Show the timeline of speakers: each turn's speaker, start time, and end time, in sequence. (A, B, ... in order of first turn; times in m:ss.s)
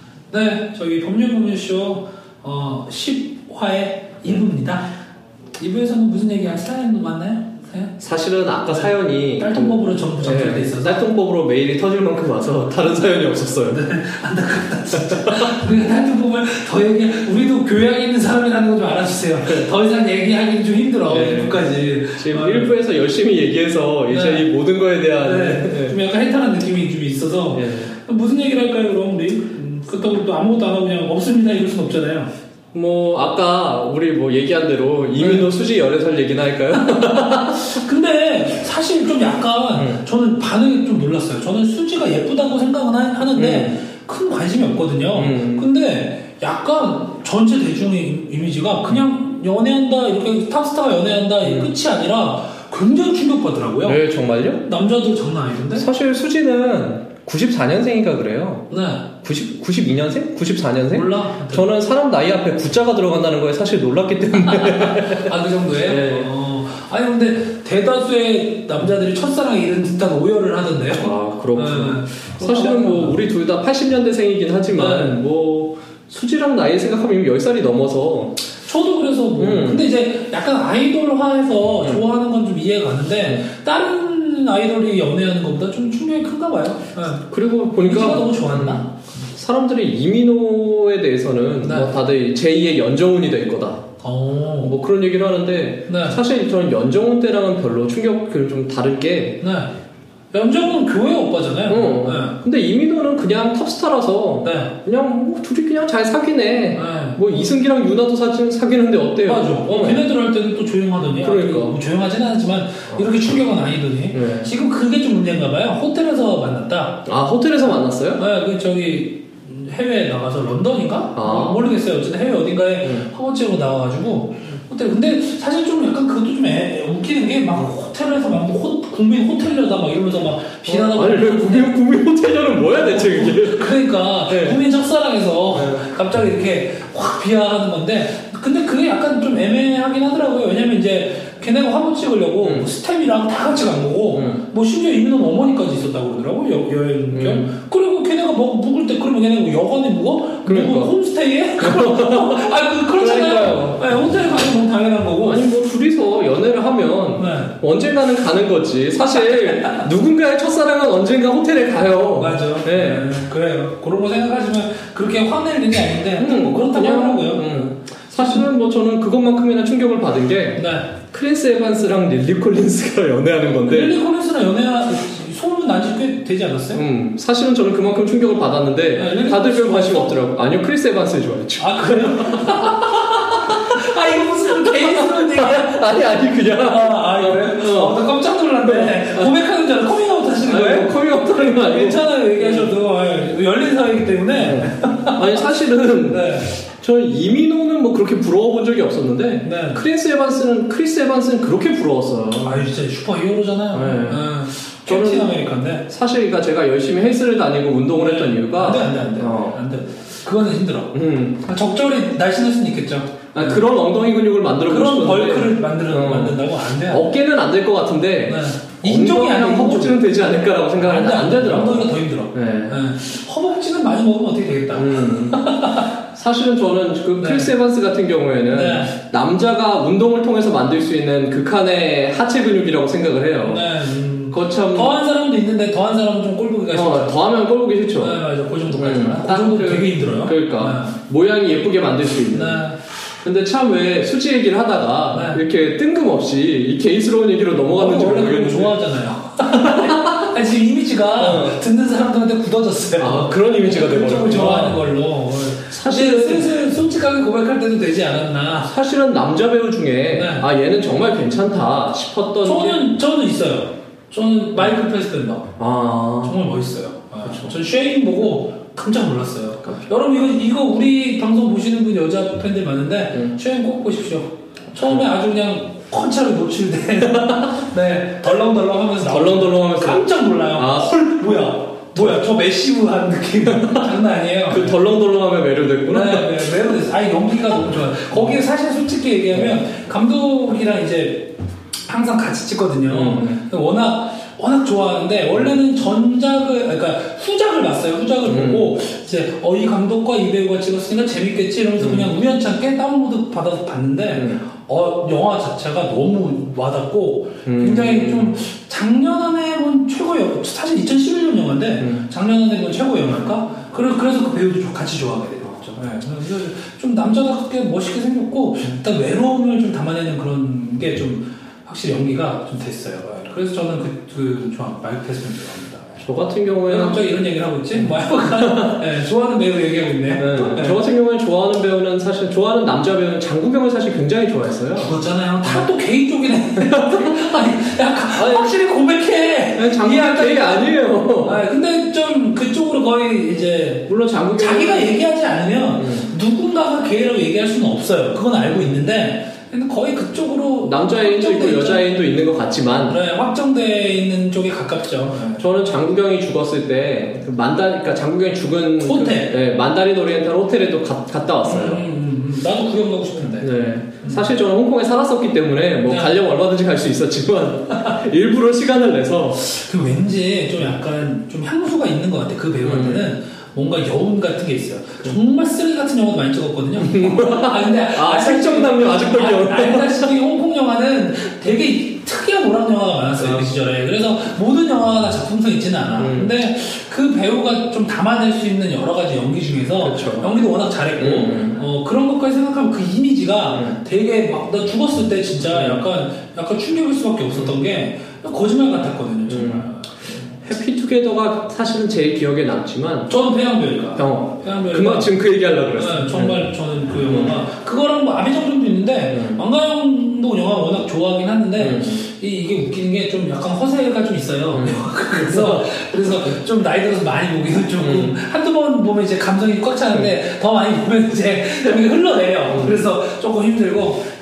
0:00.3-0:04.9 A
0:05.6-0:08.0 A
0:08.0-0:13.9 B
0:08.7-0:11.1 A
0:13.7-0:22.8 A
0:15.0-0:15.6 B
0:21.0-0:26.0 B
0:24.1-0:24.5 A
0:25.2-0:32.3 A
0:27.5-0:27.9 B
0:32.7-0:37.8 B
0:35.2-0:35.5 A
0:37.3-0:54.0 A
0:39.8-0:40.0 B
0:43.4-0:43.8 B
0:45.1-0:45.7 B
0:51.4-0:51.7 B
0:53.8-0:54.6 B
0:54.6-0:55.9 A
0:55.8-0:58.7 B
0:58.7-0:59.1 A
0:59.2-1:05.3 B
1:00.9-1:01.7 A
1:04.5-1:13.2 A
1:05.8-1:06.3 B
1:10.9-1:18.4 B
1:14.7-1:15.2 A
1:18.6-1:28.9 A
1:19.4-1:19.9 B
1:21.8-1:22.1 B
1:27.2-1:33.8 B
1:31.6-1:32.0 A
1:34.0-1:34.8 A
1:34.6-1:39.4 B
1:35.9-1:36.2 A
1:39.4-1:39.7 A
1:40.3-1:42.4 A
1:41.7-1:50.1 B
1:44.4-1:44.8 A
1:46.7-1:47.2 A
1:49.2-1:57.1 A
1:51.2-1:51.8 B
1:52.9-1:53.3 B
1:54.1-1:54.5 B
1:57.0-1:58.2 B
1:58.2-2:11.8 A
2:01.2-2:01.7 B
2:10.6-2:14.6 B
2:12.6-2:35.4 A
2:15.5-2:15.9 B
2:22.4-2:22.7 B
2:24.1-2:24.4 B
2:27.1-2:27.5 B
2:30.4-2:30.9 B
2:31.6-2:34.2 B
2:35.2-2:43.1 B
2:37.2-2:37.6 A
2:39.1-2:39.9 A
2:42.1-2:48.5 A
2:46.2-2:54.0 B
2:50.6-2:51.0 A
2:53.6-2:56.8 A
2:56.7-3:03.9 B
2:58.9-3:00.3 A
3:01.6-3:15.5 A
3:04.4-3:08.0 B
3:08.6-3:09.4 B
3:10.4-3:12.7 B
3:14.4-3:22.6 B
3:16.1-3:16.5 A
3:19.4-3:19.8 A
3:22.4-3:25.9 A
3:23.7-3:29.6 B
3:27.9-3:33.6 A
3:30.9-3:31.4 B
3:33.3-3:42.8 B
3:34.7-3:37.2 A
3:38.3-3:46.0 A
3:44.7-3:55.0 B
3:47.2-3:47.6 A
3:48.5-3:48.9 A
3:53.4-3:57.2 A
3:56.7-4:02.7 B
3:58.0-4:01.0 A
4:02.3-4:02.8 A
4:03.2-4:08.8 B
4:05.1-4:05.4 A
4:07.6-4:18.8 A
4:09.4-4:10.3 B
4:11.2-4:11.6 B
4:13.0-4:14.9 B
4:15.7-4:16.6 B
4:18.6-4:22.9 B
4:20.1-4:20.5 A
4:22.4-4:25.5 A
4:25.6-4:26.5 B
4:26.2-4:44.8 A
4:27.2-4:27.6 B
4:37.1-4:37.5 B
4:39.0-4:42.3 B
4:43.5-4:46.4 B
4:45.8-4:51.3 A
4:49.3-4:49.6 B
4:51.9-5:26.0 A
4:52.9-4:53.4 B
4:58.2-4:58.8 B
5:01.8-5:02.1 B
5:04.1-5:04.4 B
5:07.4-5:08.4 B
5:26.0-5:27.1 B
5:26.7-5:30.8 A
5:27.7-5:28.9 B
5:30.1-5:35.7 B
5:34.8-5:52.0 A
5:36.6-5:37.2 B
5:39.6-5:41.4 B
5:43.9-5:45.0 B
5:45.8-5:46.1 B
5:50.6-5:53.0 B
5:52.9-5:55.4 A
5:55.4-6:01.9 B
5:58.8-5:59.4 A
6:01.4-6:04.3 A
6:03.4-6:09.5 B
6:05.8-6:06.2 A
6:09.4-6:40.4 A
6:12.6-6:13.1 B
6:16.8-6:20.1 B
6:23.2-6:23.6 B
6:26.0-6:26.4 B
6:29.8-6:30.4 B
6:31.0-6:31.6 B
6:33.5-6:33.8 B
6:35.4-6:35.8 B
6:37.3-6:37.6 B
6:39.3-6:43.2 B
6:43.1-6:45.2 A
6:44.0-6:47.4 B
6:45.7-7:04.1 A
6:49.1-6:49.4 B
6:51.6-6:52.0 B
6:54.5-6:55.7 B
6:57.8-6:58.2 B
7:02.5-7:02.8 B